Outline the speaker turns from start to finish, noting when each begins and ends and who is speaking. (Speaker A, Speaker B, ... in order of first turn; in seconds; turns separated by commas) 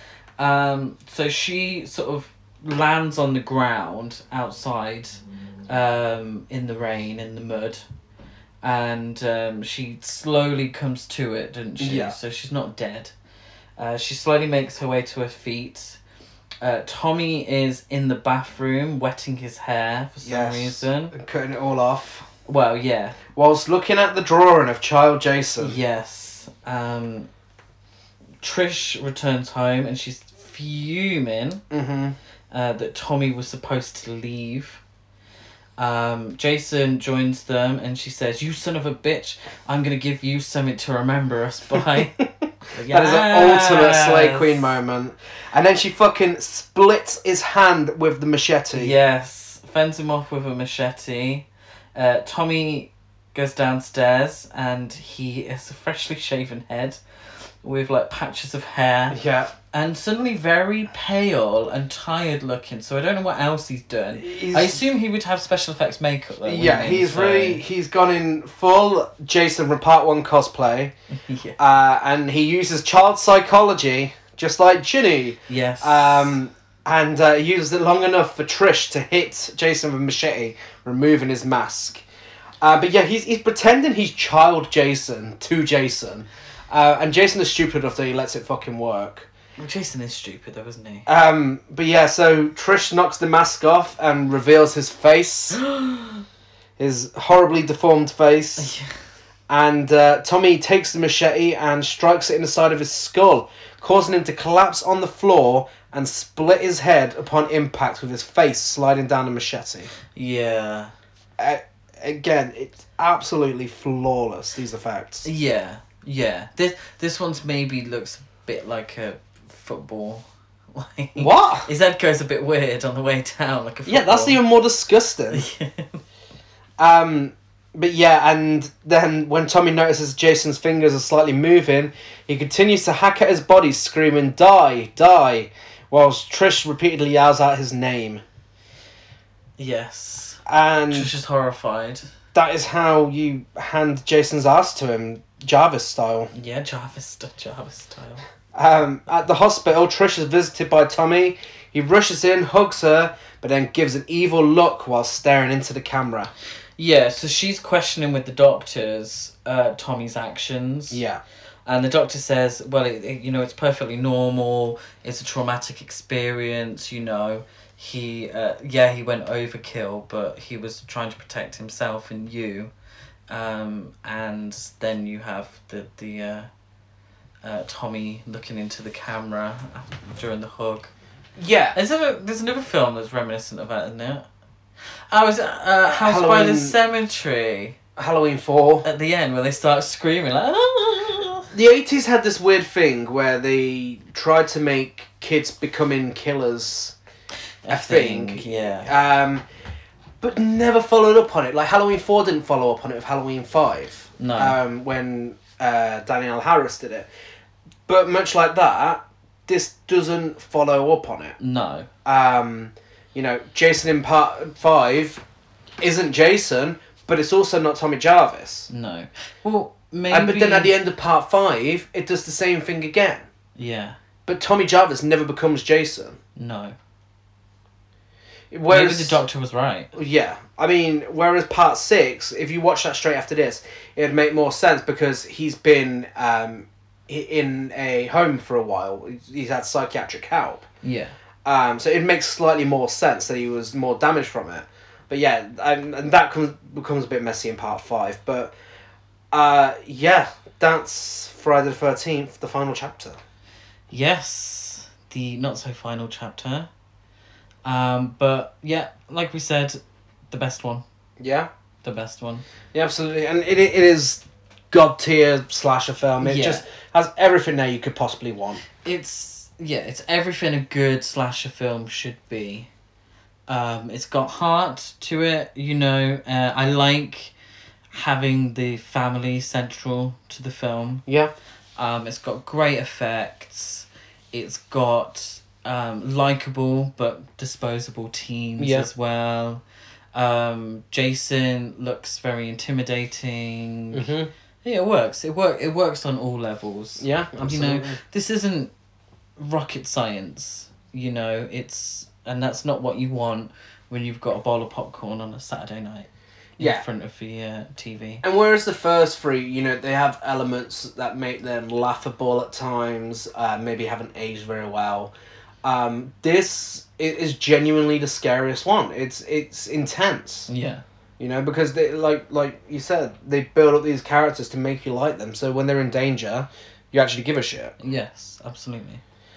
Speaker A: 0.4-7.9, Speaker A: 8.6-13.1, Speaker B: 11.8-12.2, Speaker A: 13.8-16.0, Speaker A: 16.6-21.1, Speaker B: 20.2-22.3, Speaker A: 22.5-23.2, Speaker B: 23.3-25.8, Speaker A: 25.6-27.3, Speaker A: 28.4-31.6, Speaker B: 31.7-32.1, Speaker A: 32.5-34.8, Speaker A: 35.8-44.7, Speaker B: 42.9-48.9, Speaker A: 48.7-57.0, Speaker A: 57.6-59.2, Speaker B: 59.1-59.5, Speaker A: 59.7-67.6, Speaker B: 64.2-64.8, Speaker B: 66.4-70.9, Speaker A: 71.2-71.6, Speaker B: 71.6-82.0, Speaker A: 75.5-76.3, Speaker B: 82.6-89.3, Speaker A: 89.6-91.1, Speaker B: 91.0-95.6, Speaker A: 95.6-96.2, Speaker B: 96.8-98.7, Speaker A: 98.6-98.9, Speaker B: 99.5-109.9, Speaker A: 110.1-110.9, Speaker B: 111.4-115.3, Speaker A: 115.2-124.4, Speaker B: 121.2-121.7, Speaker B: 123.8-125.5, Speaker A: 125.3-126.0, Speaker B: 126.8-138.2, Speaker A: 139.6-142.1, Speaker B: 140.4-141.1, Speaker B: 142.3-146.3, Speaker A: 146.3-148.2, Speaker B: 148.5-156.3, Speaker A: 156.8-161.0, Speaker B: 160.9-161.2, Speaker A: 161.7-172.7, Speaker A: 173.3-176.5, Speaker A: 177.4-180.9, Speaker B: 181.4-181.8, Speaker A: 181.7-184.2, Speaker A: 185.1-187.8, Speaker B: 185.9-186.8, Speaker B: 187.9-188.9, Speaker A: 188.8-191.5, Speaker B: 191.5-196.9, Speaker A: 197.6-198.9, Speaker B: 197.7-199.4, Speaker B: 200.2-207.1, Speaker A: 204.2-204.6, Speaker B: 207.9-211.4, Speaker A: 211.4-211.9, Speaker B: 212.0-215.2, Speaker B: 215.8-218.7, Speaker A: 218.7-220.7, Speaker B: 220.1-223.3, Speaker A: 223.6-224.0, Speaker B: 224.2-226.2, Speaker A: 226.4-226.7, Speaker B: 228.5-229.2, Speaker A: 228.7-229.9, Speaker B: 229.9-240.7, Speaker A: 240.8-241.1, Speaker B: 241.4-248.5, Speaker B: 249.3-253.2, Speaker A: 253.9-256.7, Speaker A: 257.6-260.8, Speaker B: 261.2-261.5, Speaker A: 261.8-262.4, Speaker B: 262.7-268.6, Speaker A: 266.2-266.6, Speaker A: 268.8-272.7, Speaker A: 273.5-277.3, Speaker A: 277.9-281.1, Speaker B: 281.1-281.3, Speaker A: 281.8-289.6, Speaker B: 288.6-288.9, Speaker A: 290.1-294.1, Speaker B: 293.9-294.3, Speaker A: 294.6-298.7, Speaker B: 297.0-298.0, Speaker A: 299.4-308.2, Speaker B: 306.6-306.8, Speaker B: 308.2-315.1, Speaker B: 315.6-320.5, Speaker A: 320.5-320.8, Speaker B: 321.2-327.7, Speaker A: 327.8-329.0